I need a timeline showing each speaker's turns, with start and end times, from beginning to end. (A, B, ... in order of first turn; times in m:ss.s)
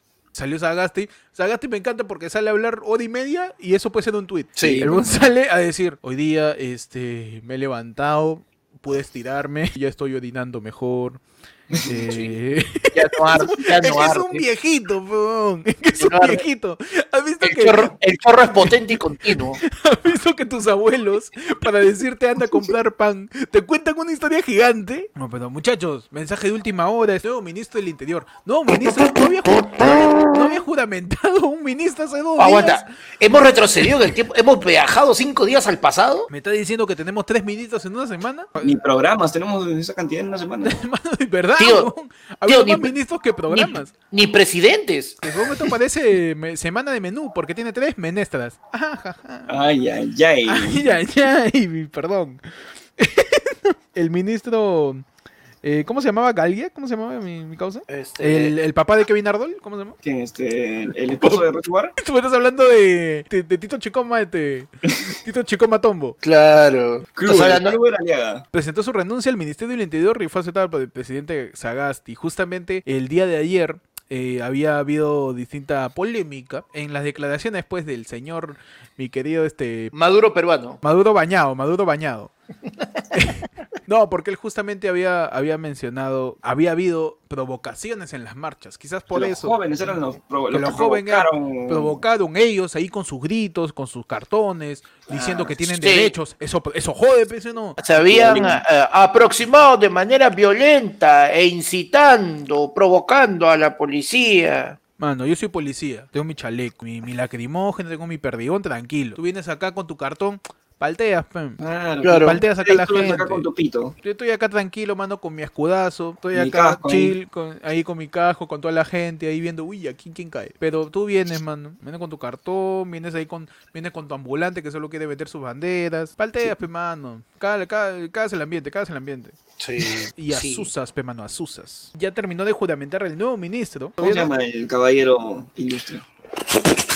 0:00.3-0:11.2 A
0:04.6-0:04.8 B
0:04.6-0:05.2 C
0:11.7-0:18.0 A
0:11.9-0:12.3 B
0:12.9-0:14.4 B
0:16.0-0:16.4 B
0:17.4-0:19.6 B
0:18.5-0:32.8 A
0:32.4-0:36.3 B
0:36.3-0:38.7 A
0:38.6-0:40.8 C
0:40.6-0:43.9 A
0:41.6-0:41.9 B
0:42.4-0:42.9 B
0:43.5-0:45.2 B
0:45.2-0:49.6 A
0:49.5-0:50.9 C
0:50.5-0:52.4 A
0:53.0-0:55.0 A
0:55.6-1:00.0 A
0:57.9-0:58.5 B
1:00.0-1:02.0 C
1:02.0-1:06.2 A
1:06.2-1:07.8 B
1:07.2-1:08.4 C
1:08.5-1:19.9 A
1:19.9-1:20.8 B
1:20.8-1:22.3 A
1:23.1-1:29.6 A
1:29.1-1:32.0 C
1:30.5-1:38.5 A
1:35.1-1:35.5 C
1:35.6-1:36.2 B
1:37.8-1:44.8 B
1:38.1-1:38.6 C
1:45.0-1:51.6 A
1:51.6-1:53.9 C
1:52.0-1:52.4 B
1:52.2-1:53.4 A
1:54.0-2:09.4 A
1:56.3-1:57.1 C
2:09.6-2:10.7 B
2:10.2-2:14.3 A
2:14.0-2:16.0 C